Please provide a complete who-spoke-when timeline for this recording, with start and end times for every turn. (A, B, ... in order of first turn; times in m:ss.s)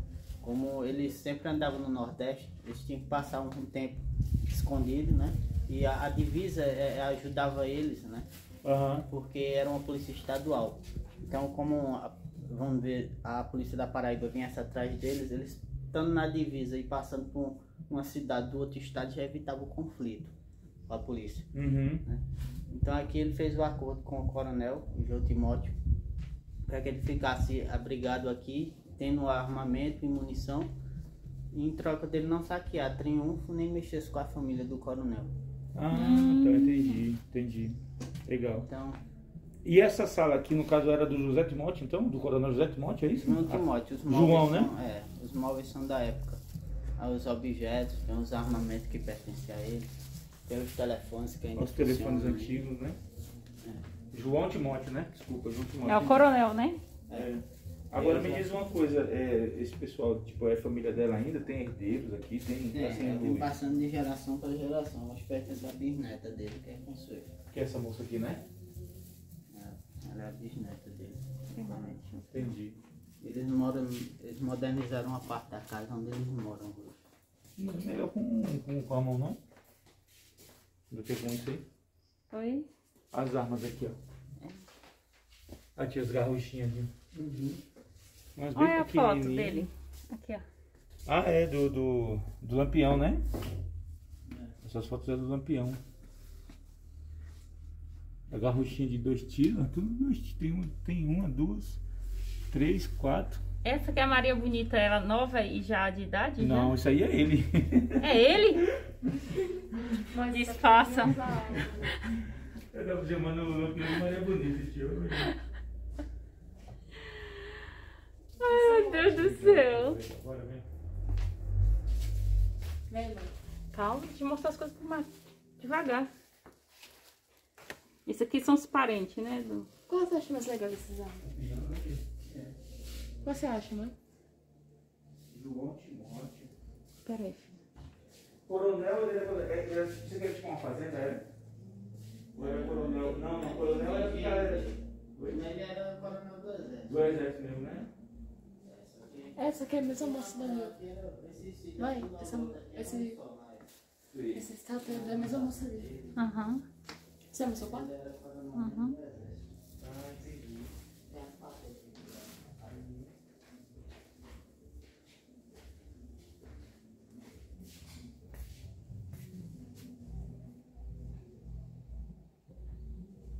0:00.4-0:08.3 A
0:08.6-0:09.1 B
0:09.0-0:20.3 A
0:20.9-0:21.5 A
0:21.5-0:22.0 B
0:22.0-0:25.8 A
0:26.7-0:30.7 A
0:31.5-0:35.3 A
0:35.7-0:38.7 B
0:35.9-0:37.0 C
0:38.6-0:39.0 A
0:39.6-0:44.7 B
0:43.2-0:46.4 A
0:47.0-0:49.9 A
0:50.5-0:52.6 A
0:51.6-0:53.0 B
0:54.1-0:56.2 B
0:55.8-0:56.8 C
0:55.9-0:56.2 A
0:57.1-1:03.5 B
0:57.9-0:58.6 A
1:02.7-1:07.3 A
1:07.5-1:08.4 B
1:09.5-1:12.0 A
1:11.5-1:12.5 C
1:12.3-1:12.8 B
1:13.2-1:17.0 A
1:17.6-1:19.4 B
1:20.9-1:21.6 B
1:22.3-1:22.7 C
1:23.1-1:24.0 B
1:25.8-1:26.9 B
1:27.1-1:27.6 A
1:28.4-1:29.7 B
1:28.5-1:30.4 C
1:31.1-1:33.2 B
1:34.2-1:34.6 A
1:34.6-1:35.8 B
1:38.3-1:41.8 B
1:42.5-1:43.4 B
1:43.6-1:46.8 C
1:46.4-1:48.8 B
1:48.0-1:48.6 C
1:50.1-1:51.9 D
1:50.2-1:51.2 C
1:51.2-1:51.7 B
1:52.2-1:55.3 B
1:58.4-2:00.0 C
1:58.4-1:59.1 D
1:58.9-2:00.6 B
2:02.9-2:03.3 D
2:03.7-2:06.1 C
2:08.0-2:09.7 C
2:09.9-2:11.3 D
2:11.2-2:12.0 B
2:13.2-2:13.9 D
2:15.3-2:16.5 B
2:17.0-2:17.6 C
2:18.5-2:21.2 B
2:22.3-2:25.4 B
2:22.3-2:27.2 A
2:26.9-2:27.9 B
2:28.6-2:33.7 A
2:29.4-2:30.7 D
2:31.8-2:33.2 D
2:34.1-2:34.5 B
2:34.3-2:35.9 D
2:34.7-2:36.3 A
2:36.2-2:36.6 C
2:37.3-2:37.9 D
2:37.4-2:39.5 A
2:38.5-2:38.9 C
2:39.8-2:40.7 B
2:41.1-2:43.0 A